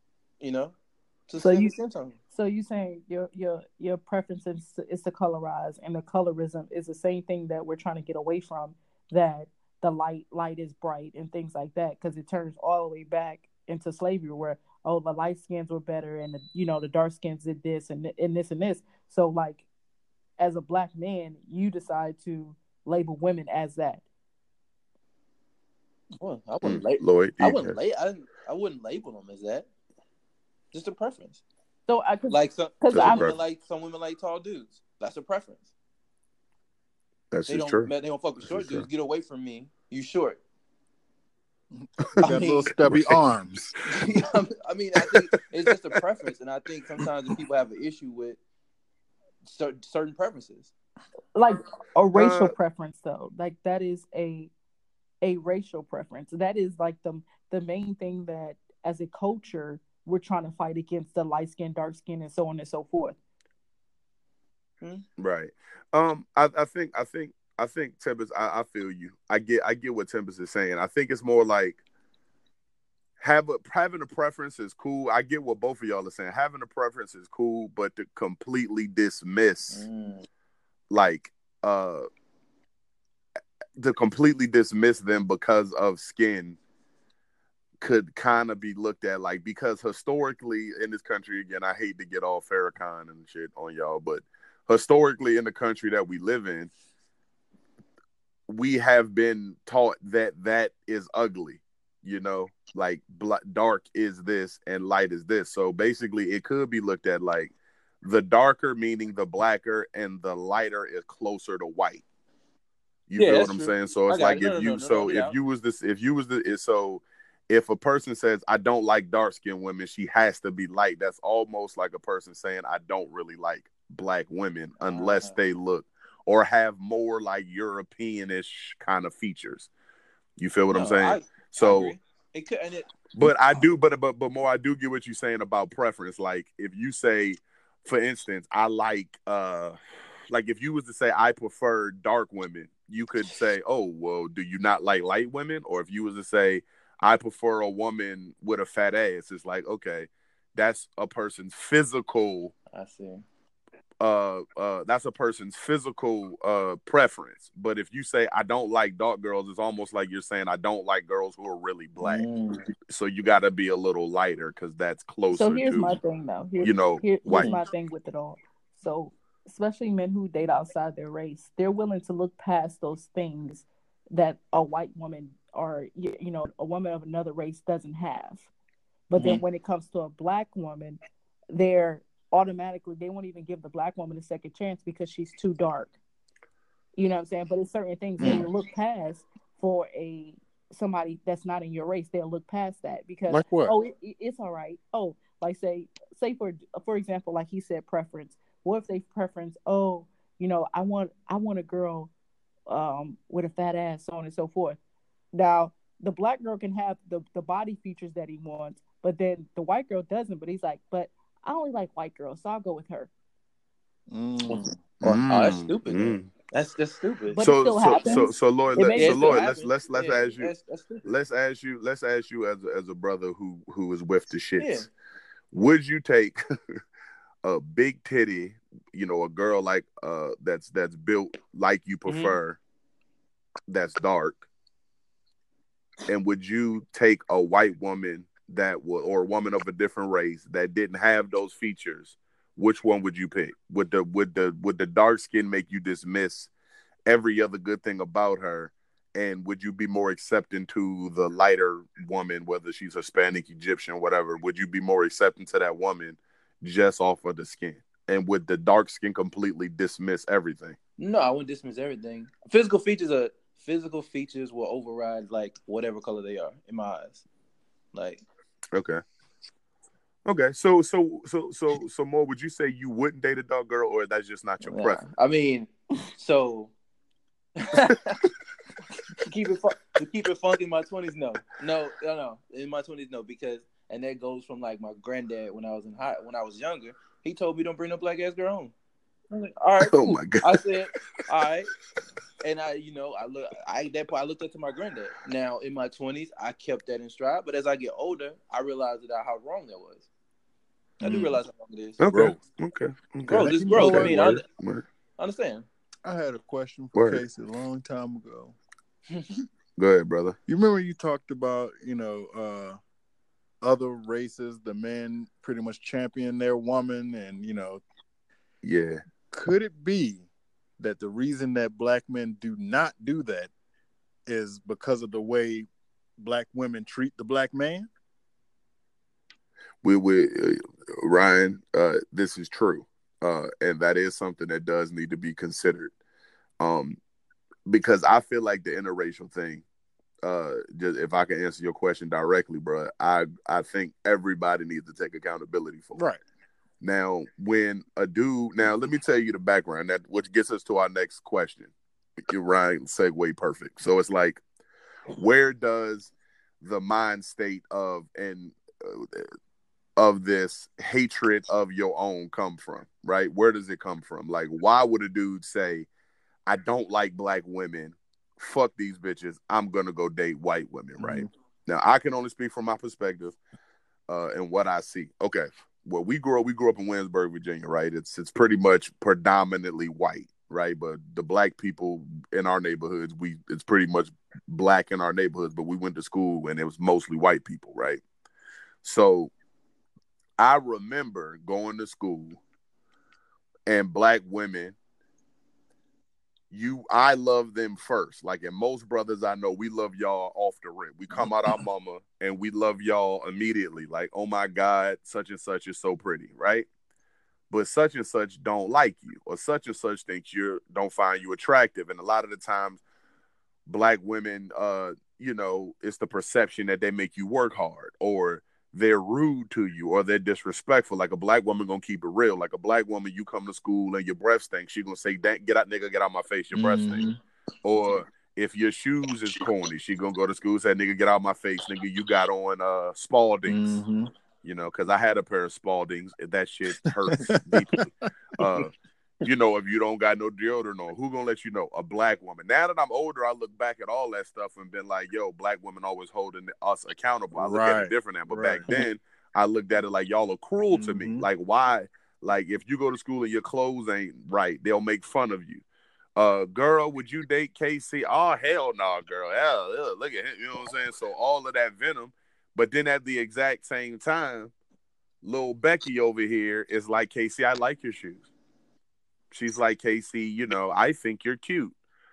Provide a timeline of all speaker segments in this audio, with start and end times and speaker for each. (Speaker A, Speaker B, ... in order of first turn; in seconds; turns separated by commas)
Speaker A: 0.4-0.8, Speaker A: 1.3-2.2, Speaker B: 1.4-1.8, Speaker B: 2.3-19.6, Speaker B: 20.4-24.0, Speaker A: 26.2-29.7, Speaker C: 26.6-27.8, Speaker A: 30.7-31.4, Speaker B: 31.9-33.3, Speaker A: 32.3-35.7, Speaker C: 32.9-33.4, Speaker C: 37.3-37.9, Speaker A: 37.5-40.4, Speaker C: 38.4-38.9, Speaker D: 41.8-43.8, Speaker C: 42.0-42.3, Speaker A: 42.2-42.7, Speaker C: 42.8-43.1, Speaker A: 43.9-48.4, Speaker A: 49.5-50.7, Speaker B: 51.4-54.5, Speaker C: 52.1-52.5, Speaker B: 55.2-63.2, Speaker C: 65.2-71.8, Speaker C: 73.2-79.9, Speaker A: 79.7-80.3, Speaker C: 80.9-82.1, Speaker C: 83.8-86.6, Speaker C: 87.8-96.7, Speaker C: 98.5-112.0, Speaker C: 113.1-129.7, Speaker A: 113.2-115.4, Speaker A: 124.9-125.4, Speaker C: 130.4-131.9, Speaker A: 130.7-133.3, Speaker C: 133.1-139.8, Speaker C: 140.3-152.5, Speaker A: 152.7-153.2, Speaker C: 154.0-162.3, Speaker A: 162.0-162.7, Speaker C: 162.9-166.0, Speaker B: 165.3-178.5, Speaker C: 166.6-167.6, Speaker A: 167.3-167.6, Speaker B: 179.1-181.0, Speaker B: 181.5-185.9, Speaker B: 186.9-202.1, Speaker D: 188.2-188.4, Speaker D: 193.3-193.7, Speaker B: 202.7-204.8, Speaker B: 205.3-213.1, Speaker D: 214.1-214.8, Speaker A: 214.5-217.4, Speaker C: 215.0-216.3, Speaker B: 217.3-219.5, Speaker C: 217.4-220.5, Speaker A: 218.9-221.1, Speaker C: 221.1-224.9, Speaker A: 224.6-224.9, Speaker C: 225.5-226.4, Speaker C: 227.4-232.6, Speaker A: 232.1-232.4, Speaker C: 233.7-234.5, Speaker C: 236.1-246.5, Speaker C: 247.1-260.8, Speaker A: 261.0-267.2, Speaker A: 267.9-268.2, Speaker C: 268.7-269.0, Speaker C: 270.2-275.0, Speaker A: 274.6-276.7, Speaker A: 277.6-278.3, Speaker A: 279.3-288.7, Speaker A: 289.3-291.7, Speaker C: 289.8-290.6, Speaker A: 292.4-300.1, Speaker D: 301.0-301.4, Speaker A: 301.0-302.0, Speaker C: 302.0-304.8, Speaker D: 302.1-302.4, Speaker A: 303.3-304.4, Speaker D: 303.3-304.2, Speaker A: 305.2-305.7, Speaker D: 306.0-308.6, Speaker C: 306.9-307.2, Speaker C: 309.8-310.4, Speaker D: 310.5-312.8, Speaker D: 313.6-317.8, Speaker C: 318.6-319.0, Speaker D: 319.3-320.2, Speaker D: 320.8-323.5, Speaker D: 324.3-327.9, Speaker C: 329.8-335.9, Speaker C: 336.6-337.0, Speaker C: 337.7-339.6, Speaker C: 340.2-346.0, Speaker C: 346.8-351.7, Speaker C: 352.3-354.4, Speaker C: 355.1-359.3, Speaker C: 360.0-365.9, Speaker C: 366.5-373.4, Speaker D: 371.0-371.3, Speaker C: 374.1-388.0, Speaker C: 388.8-389.3, Speaker C: 390.4-392.4, Speaker C: 393.7-394.8, Speaker C: 396.5-406.7, Speaker C: 407.5-412.8, Speaker C: 413.7-427.0, Speaker D: 426.5-427.2, Speaker C: 427.6-433.8, Speaker D: 433.5-434.1, Speaker C: 434.4-455.6, Speaker D: 436.8-437.9, Speaker D: 447.4-448.7, Speaker D: 450.7-451.3, Speaker C: 456.2-464.5, Speaker C: 465.2-468.3, Speaker C: 469.3-471.8